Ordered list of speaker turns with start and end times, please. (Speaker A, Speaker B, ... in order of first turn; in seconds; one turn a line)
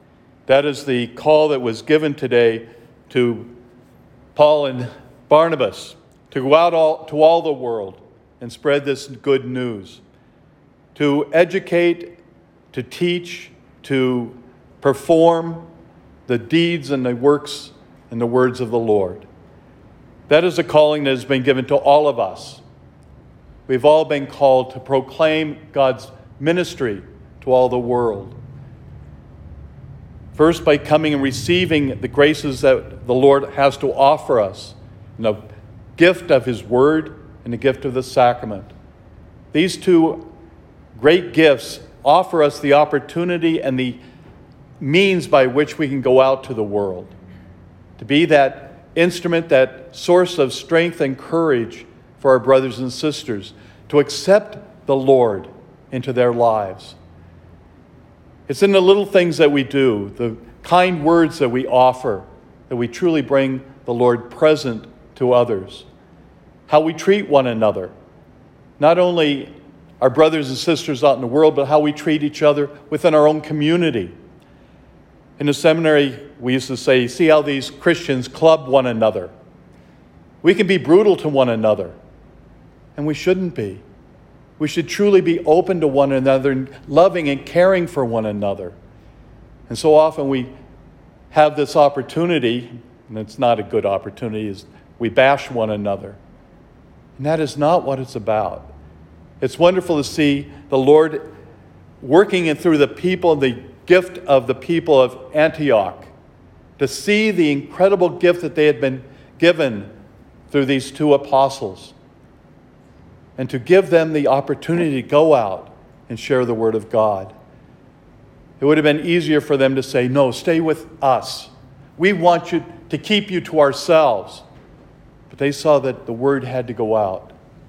Speaker A: 0.5-3.5
Speaker A: 4.3-10.0
Speaker A: 10.9-12.2
Speaker A: 12.7-15.6
Speaker A: 16.3-19.2
Speaker A: 20.3-22.6
Speaker A: 23.7-28.3
Speaker A: 30.3-35.4
Speaker A: 36.0-38.7
Speaker A: 39.5-40.2
Speaker A: 40.9-44.0
Speaker A: 44.8-47.1
Speaker A: 48.0-57.0
Speaker A: 58.5-65.9
Speaker A: 66.7-67.9
Speaker A: 68.8-74.1
Speaker A: 75.4-79.3
Speaker A: 80.4-82.0
Speaker A: 83.0-83.8
Speaker A: 84.6-88.8
Speaker A: 89.7-90.5
Speaker A: 91.3-96.2
Speaker A: 97.2-98.7
Speaker A: 99.4-101.2
Speaker A: 102.0-106.1
Speaker A: 106.8-109.9
Speaker A: 110.5-111.9
Speaker A: 113.4-117.3
Speaker A: 118.6-124.4
Speaker A: 125.3-127.3